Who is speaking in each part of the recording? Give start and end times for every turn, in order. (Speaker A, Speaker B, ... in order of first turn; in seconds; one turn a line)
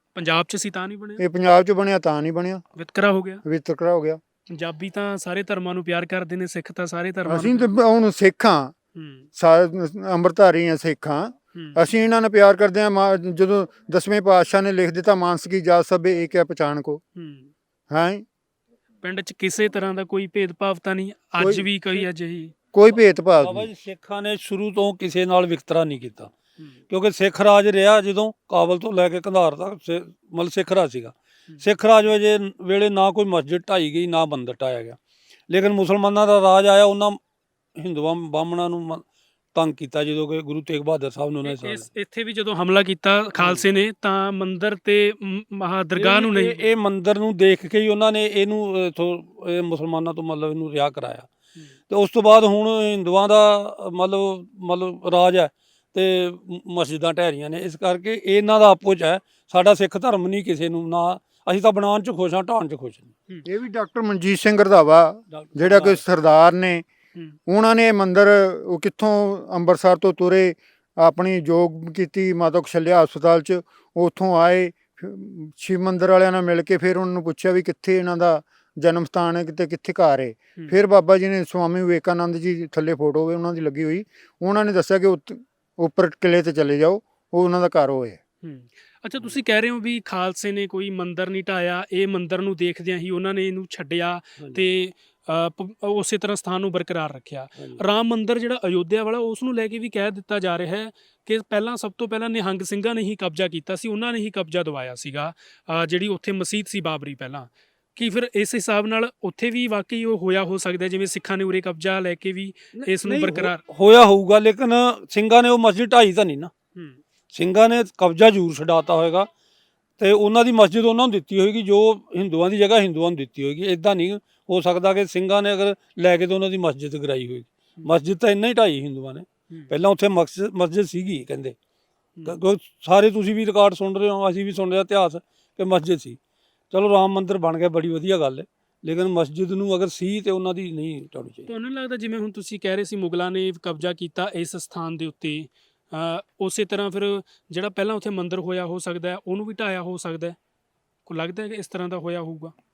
Speaker A: 0.1-1.2
Speaker B: 1.2-2.6
Speaker A: 2.8-3.4
Speaker B: 3.4-4.2
Speaker A: 4.5-7.7
Speaker B: 7.2-8.7
Speaker A: 8.9-9.3
Speaker B: 9.3-17.0
Speaker A: 11.5-11.8
Speaker A: 17.1-17.5
Speaker B: 17.9-18.2
Speaker A: 19.0-22.5
Speaker B: 21.4-22.1
Speaker B: 22.7-23.7
Speaker C: 23.4-26.3
Speaker C: 26.9-35.0
Speaker C: 35.5-37.2
Speaker C: 37.8-41.9
Speaker A: 41.4-46.7
Speaker C: 43.4-43.6
Speaker C: 45.9-51.3
Speaker C: 51.9-63.1
Speaker B: 63.4-66.8
Speaker C: 65.3-66.0
Speaker B: 67.5-88.2
Speaker A: 88.4-113.6
Speaker C: 94.4-94.6
Speaker C: 97.5-97.8
Speaker C: 112.7-116.5
Speaker A: 116.7-117.0
Speaker C: 117.3-119.3
Speaker C: 120.0-131.6
Speaker C: 132.2-136.2
Speaker C: 136.7-141.5
Speaker A: 141.5-150.3
Speaker A: 151.1-152.5